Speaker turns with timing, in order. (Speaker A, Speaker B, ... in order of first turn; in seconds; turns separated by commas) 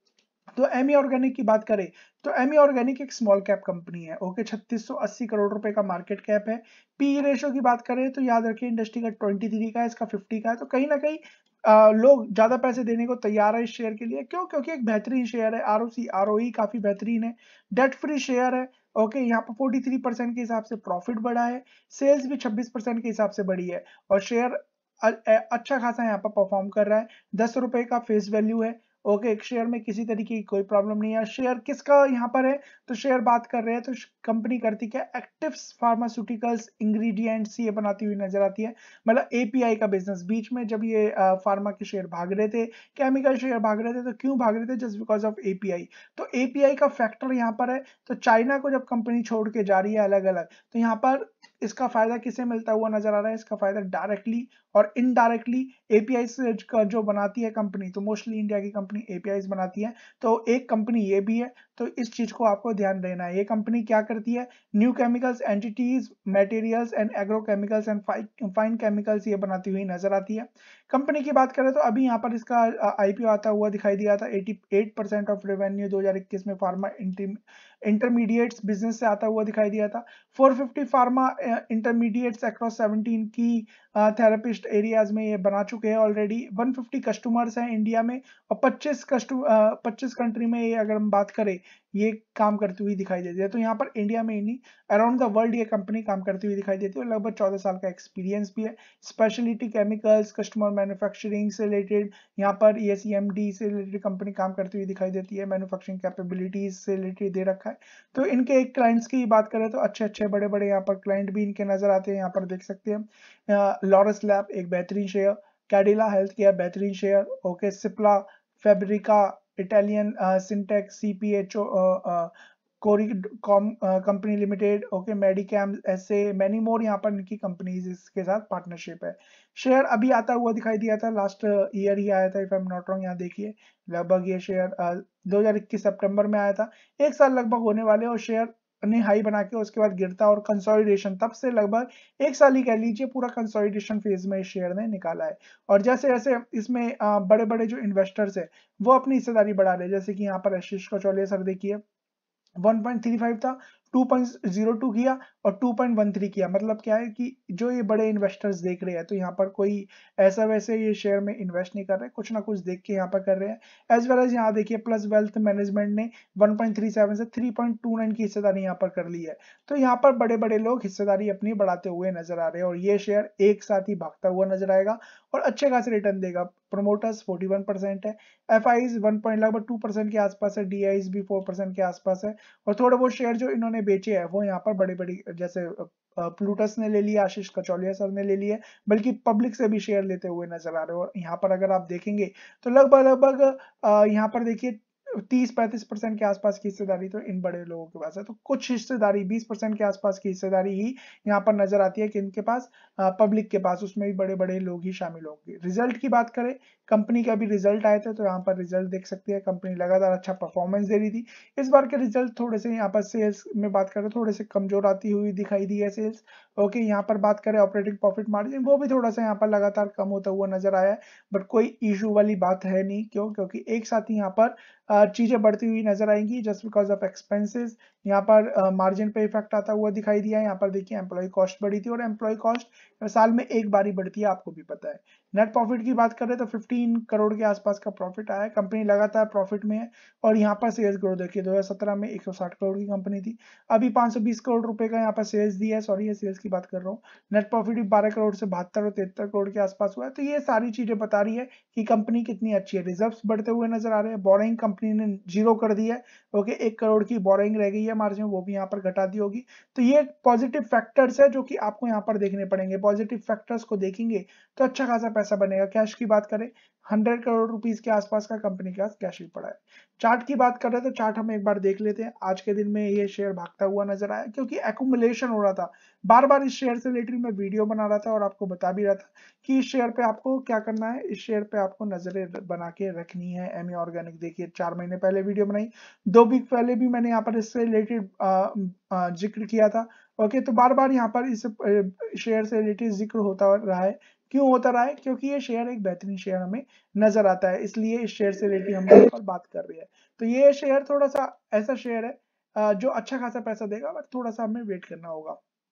Speaker A: 0.6-151.8, Speaker A: 152.6-305.4